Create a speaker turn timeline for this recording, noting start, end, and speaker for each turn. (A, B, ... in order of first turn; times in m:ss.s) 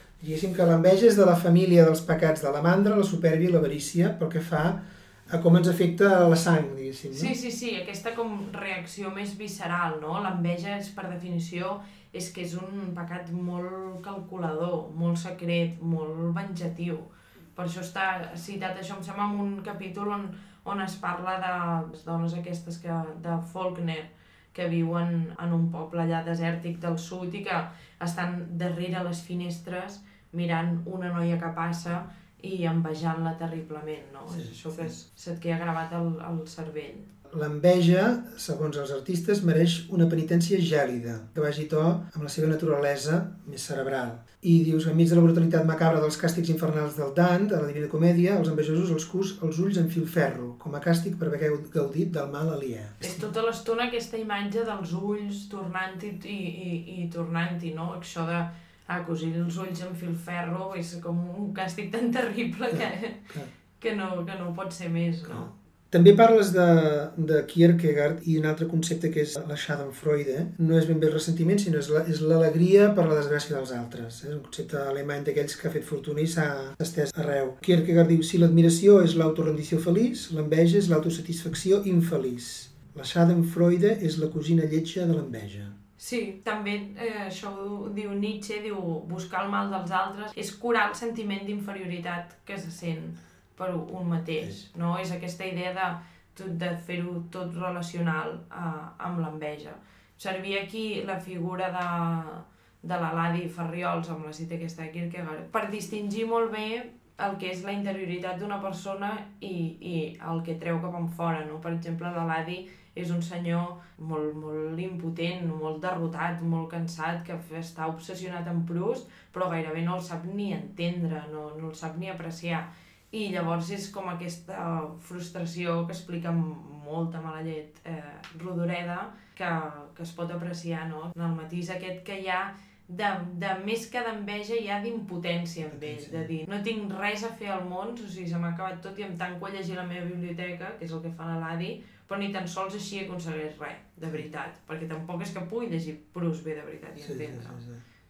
0:00.2-0:07.3 A
0:07.1-0:37.1 B
0:34.3-0:34.9 A
0:37.3-0:53.3 A
0:53.0-1:05.5 B
1:02.7-1:03.5 A
1:05.2-1:25.8 A
1:26.0-2:27.6 B
2:15.6-2:16.3 A
2:27.0-2:27.8 A